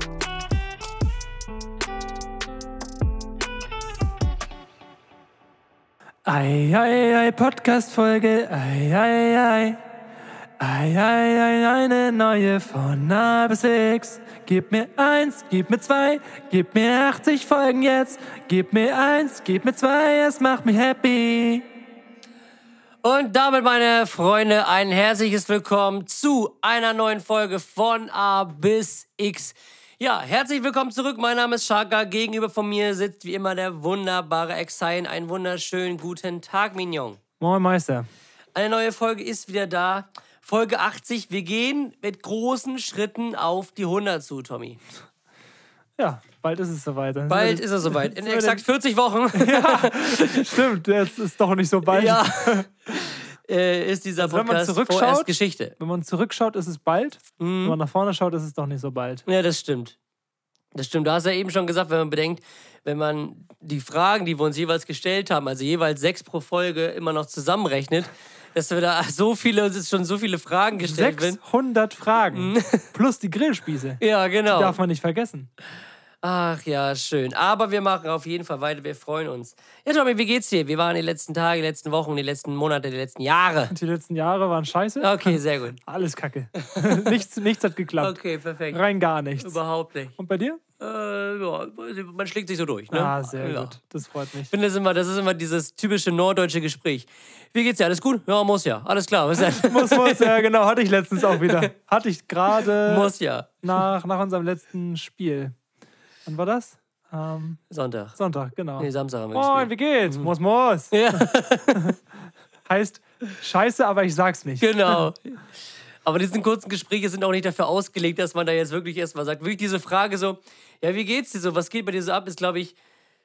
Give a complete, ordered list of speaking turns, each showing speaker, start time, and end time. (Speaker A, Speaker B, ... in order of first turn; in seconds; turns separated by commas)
Speaker A: 6.2-9.8, Speaker A: 10.6-21.6, Speaker B: 23.0-37.2, Speaker A: 37.4-38.1, Speaker B: 38.5-44.8, Speaker A: 46.0-48.6, Speaker B: 47.3-50.6, Speaker A: 49.3-52.7, Speaker B: 51.8-55.8, Speaker A: 54.2-59.2, Speaker B: 57.4-57.8, Speaker B: 59.2-60.0, Speaker B: 60.7-71.4, Speaker A: 70.8-75.5, Speaker B: 72.3-72.8, Speaker B: 74.0-74.8, Speaker B: 76.2-83.7, Speaker A: 83.7-88.2, Speaker B: 85.0-85.8, Speaker B: 86.6-87.2, Speaker B: 88.0-88.8, Speaker A: 88.7-89.6, Speaker B: 89.4-90.2, Speaker A: 90.2-90.6, Speaker B: 90.8-93.8, Speaker A: 92.9-94.5, Speaker B: 94.5-100.5, Speaker A: 99.5-105.5, Speaker B: 101.2-101.7, Speaker B: 102.6-103.6, Speaker A: 106.2-107.6, Speaker B: 107.7-108.2, Speaker A: 108.2-112.0, Speaker B: 108.8-110.3, Speaker B: 110.9-112.0, Speaker A: 112.7-115.0, Speaker B: 114.6-115.5, Speaker B: 116.0-122.8